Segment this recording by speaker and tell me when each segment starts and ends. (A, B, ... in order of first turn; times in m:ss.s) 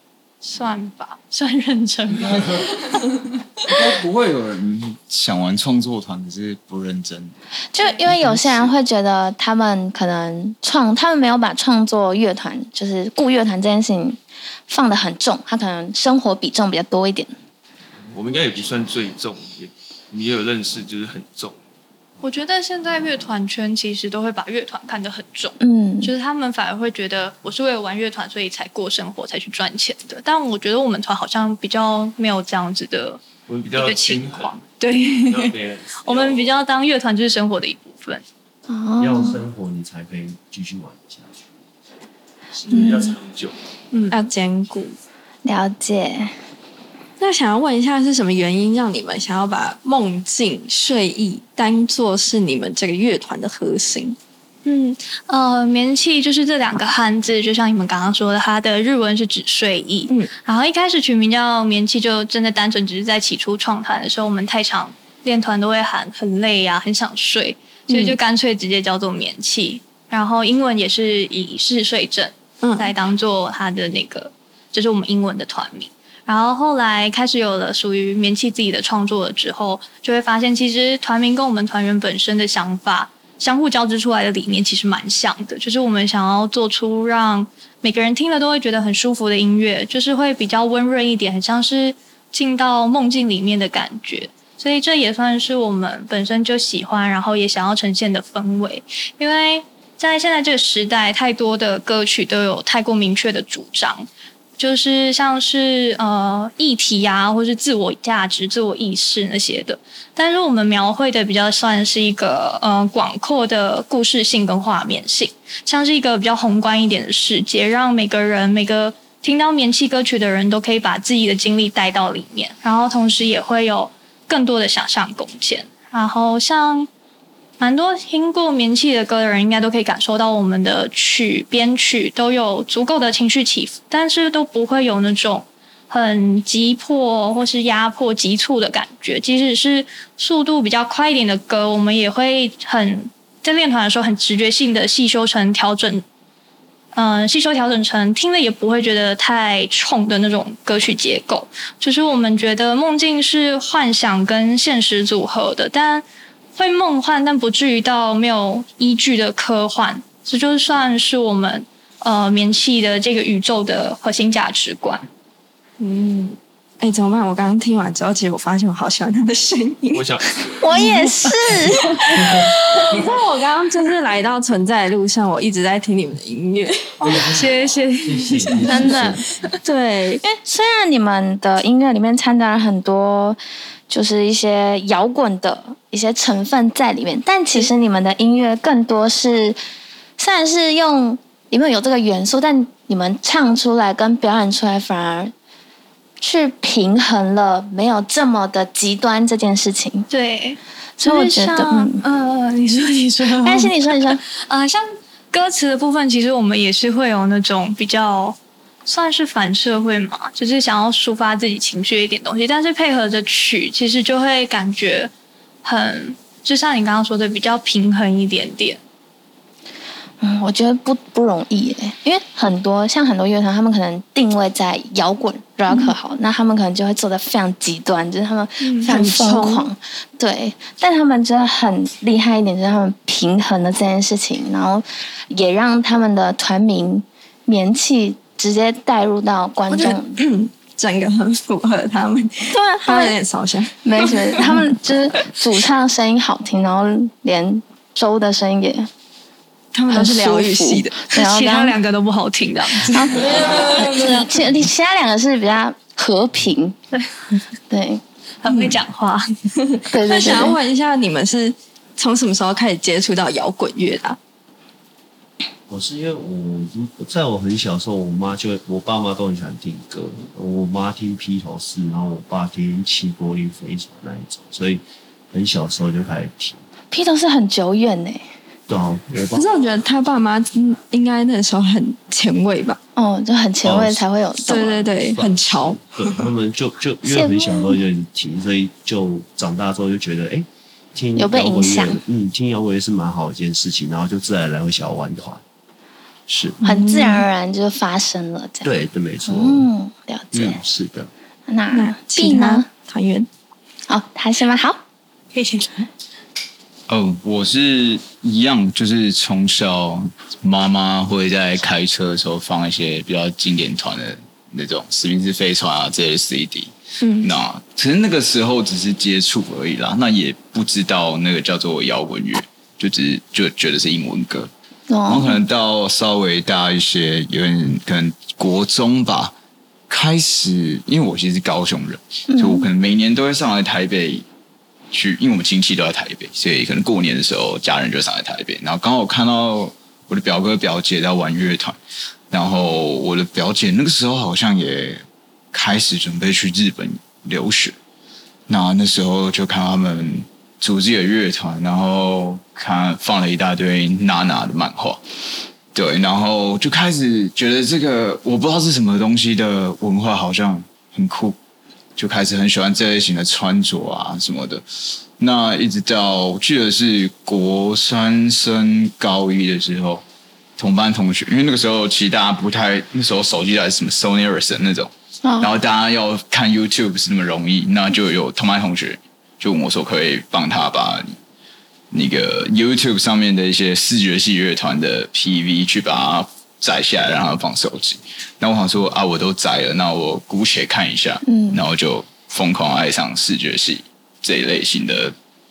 0:00.4-0:03.0 A
0:02.2-0:02.6 B
0:03.6-0:07.3 B
0:07.7-0:14.2 C
0:08.1-0:08.7 B
0:14.7-0:17.3 C
0:18.1-0:21.6 D
0:22.2-0:33.2 A
0:25.6-0:26.1 C
0:33.5-0:34.6 D
0:33.7-0:35.5 A
0:35.3-0:36.5 D
0:36.0-0:38.2 A
0:38.7-0:39.4 C
0:39.0-0:41.4 E
0:42.5-0:43.6 D
0:42.7-0:43.1 C
0:44.1-0:45.0 F
0:45.4-0:46.3 C
0:47.2-0:54.2 F
0:54.6-1:44.0 A
1:07.9-1:08.2 F
1:12.6-1:12.9 F
1:44.6-2:06.9 A
2:07.6-2:26.0 A
2:26.9-2:36.0 A
2:36.6-2:45.0 A
2:45.8-2:51.3 F
2:49.9-2:50.6 D
2:50.6-2:52.0 C
2:52.0-2:57.1 F
2:57.0-2:58.9 A
2:57.0-2:59.2 E
2:58.6-2:59.2 C
2:59.6-3:00.2 F
3:00.2-3:09.6 C
3:10.2-3:15.3 C
3:16.2-3:20.1 C
3:20.1-3:35.1 A
3:21.0-3:22.0 C
3:23.4-3:24.2 C
3:35.6-3:38.8 A
3:40.2-4:00.2 C
3:48.6-3:49.7 F
3:59.7-4:04.7 F
4:02.5-4:03.2 C
4:03.8-4:08.9 C
4:09.7-4:11.0 F
4:09.9-4:11.8 C
4:11.1-4:13.2 A
4:12.9-4:16.8 C
4:13.0-4:14.3 F
4:17.7-4:18.0 C
4:18.4-4:19.2 A
4:19.6-4:24.2 F
4:19.9-4:20.6 C
4:25.7-4:36.6 E
4:36.9-4:38.2 C
4:38.7-4:39.4 E
4:39.3-4:42.8 F
4:43.0-4:44.8 C
4:43.6-4:44.0 E
4:44.4-4:46.3 F
4:45.1-4:55.4 E
4:47.0-4:47.8 C
4:51.2-4:52.0 C
4:56.3-4:56.6 E
4:56.6-4:57.2 F
4:56.6-4:58.7 C
4:58.6-4:59.7 E
4:59.2-5:00.6 C
5:00.3-5:01.1 E
5:01.5-5:02.7 C
5:01.7-5:03.3 F
5:03.9-5:04.8 C
5:05.3-5:05.8 A
5:06.9-5:24.5 B
5:17.0-5:17.3 F
5:24.9-5:25.4 C
5:25.1-5:29.3 B
5:29.9-5:34.2 B
5:32.3-5:32.7 C
5:34.9-5:41.8 B
5:42.3-5:47.7 B
5:48.5-5:55.0 B
5:55.7-6:01.4 B
6:02.0-6:04.6 B
6:05.2-6:10.0 B
6:10.6-6:21.2 B
6:15.2-6:15.5 C
6:21.9-6:35.1 B
6:31.2-6:31.6 C